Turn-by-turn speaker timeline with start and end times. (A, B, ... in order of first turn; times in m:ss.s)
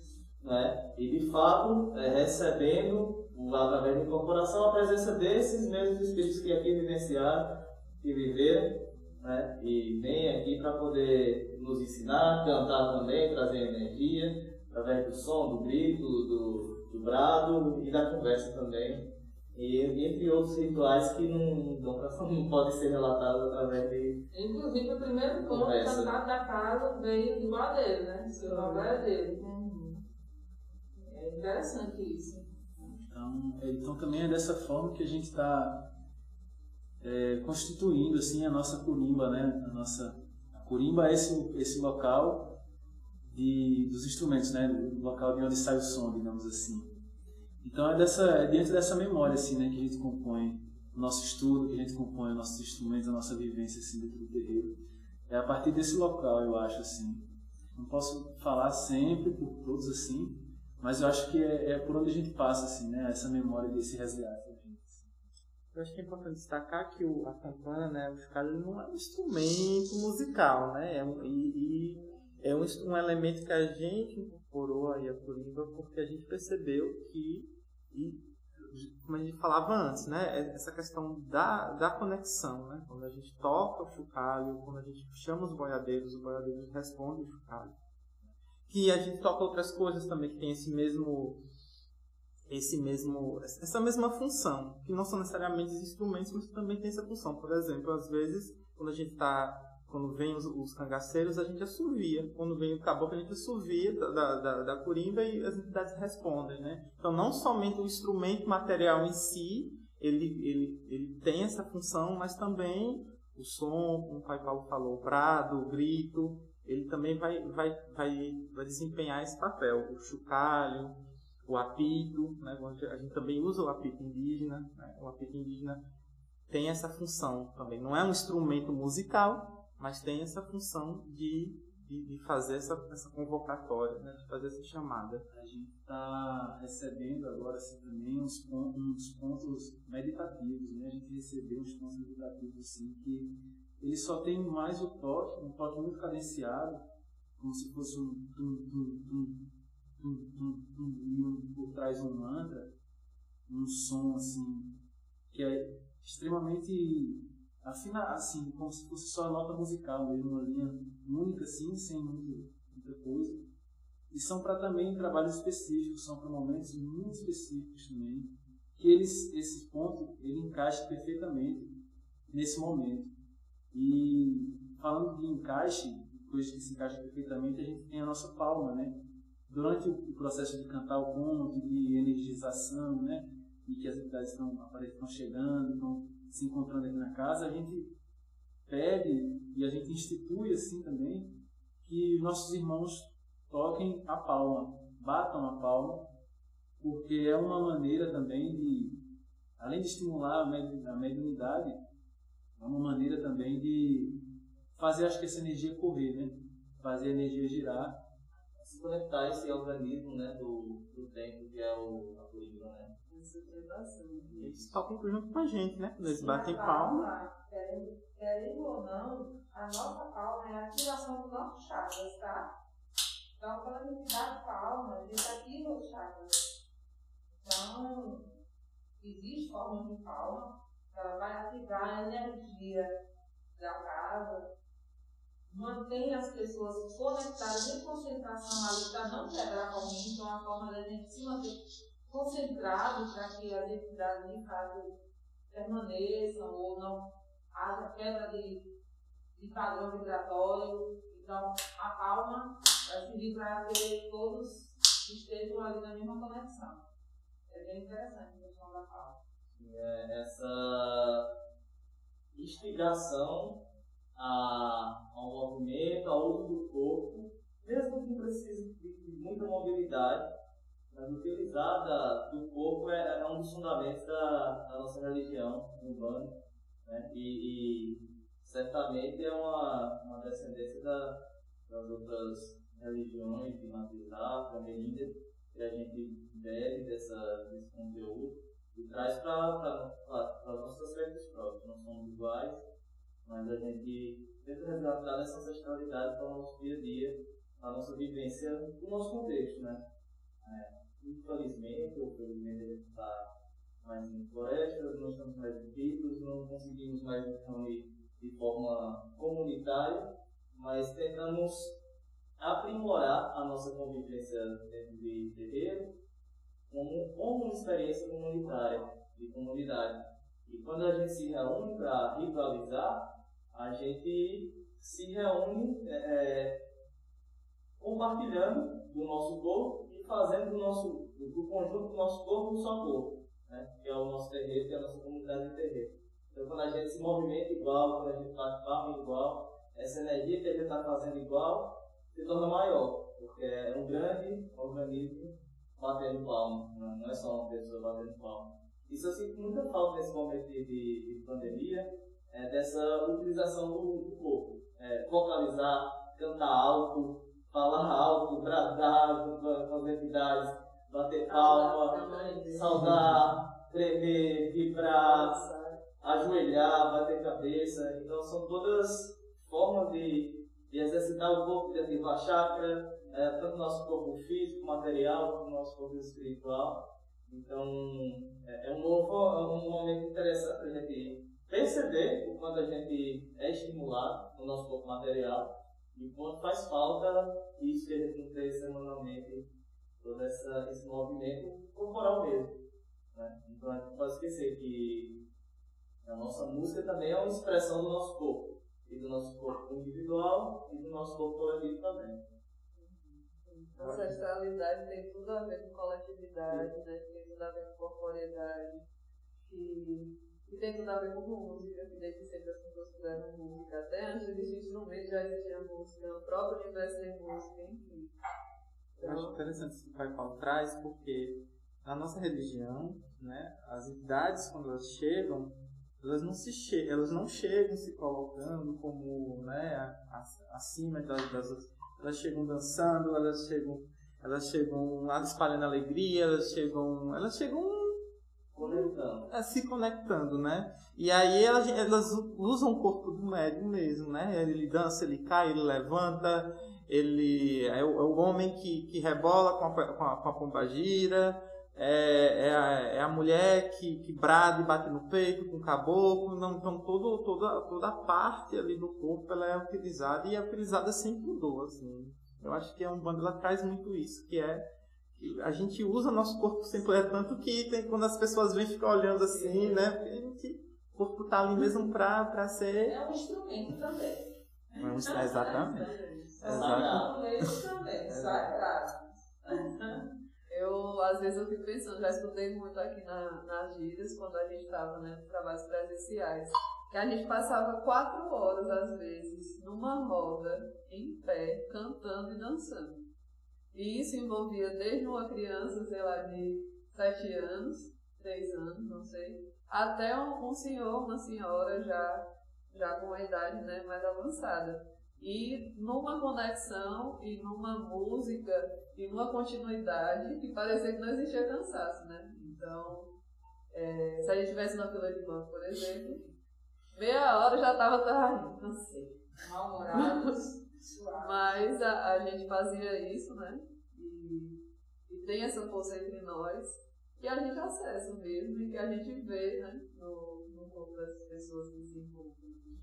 0:00.4-0:24.3 A
0:24.3-0:30.0 B
0:25.3-0:26.1 A
0:28.3-0:29.0 C
0:31.0-0:32.5 B
0:33.1-0:35.9 D
0:37.0-0:42.5 D
0:43.3-0:46.9 D
0:47.6-0:54.7 D
0:55.3-1:05.0 D
1:05.7-1:27.7 E
1:28.7-1:31.4 E
1:32.5-2:05.8 E
2:06.5-2:15.2 E
2:15.3-2:26.8 D
2:27.4-2:29.4 D
2:30.0-2:32.7 D
2:33.5-2:34.8 D
2:35.3-2:43.4 D
2:44.1-2:51.7 D
2:52.3-2:53.1 D
2:53.7-2:59.0 D
2:59.5-3:07.9 D
3:08.7-3:16.1 D
3:16.8-3:19.0 D
3:19.6-3:21.8 D
3:22.6-3:24.2 D
3:24.7-3:28.0 D
3:28.6-3:32.9 A
3:33.1-3:34.7 C
3:34.5-3:37.1 E
3:36.0-3:42.5 B
3:43.4-3:46.4 B
3:47.4-3:48.3 B
3:49.0-3:52.9 B
3:53.6-3:54.5 B
3:55.5-4:05.0 B
4:05.5-4:08.6 B
4:09.4-4:16.8 B
4:17.5-4:19.2 B
4:19.5-4:21.3 A
4:22.3-4:23.6 A
4:24.2-4:30.2 A
4:30.9-4:52.6 A
4:53.2-4:59.8 A
5:00.4-5:03.3 A
5:03.8-5:11.8 A
5:12.4-5:16.0 A
5:16.7-5:26.6 A
5:27.8-6:05.4 A
6:01.3-6:02.9 B
6:02.7-6:03.2 E
6:04.9-6:05.8 C
6:06.0-6:29.5 A
6:30.0-6:32.6 A
6:33.1-6:35.2 A
6:36.0-6:42.2 A
6:42.8-6:48.8 C
6:43.8-6:44.1 E
6:49.4-6:58.1 C
6:59.0-6:59.4 C
6:59.0-7:18.0 E
7:18.5-7:19.3 A
7:18.6-7:44.6 E
7:45.2-7:53.0 E
7:49.2-7:49.9 B
7:52.8-8:00.0 B
7:54.8-7:57.5 E
7:55.8-7:56.1 C
7:56.4-7:57.1 A
7:58.1-7:58.4 A
8:00.5-8:13.0 C
8:13.7-8:33.1 C
8:33.7-8:36.3 C
8:36.9-8:39.2 C
8:39.4-8:41.7 B
8:39.9-8:40.3 C
8:41.2-8:52.4 C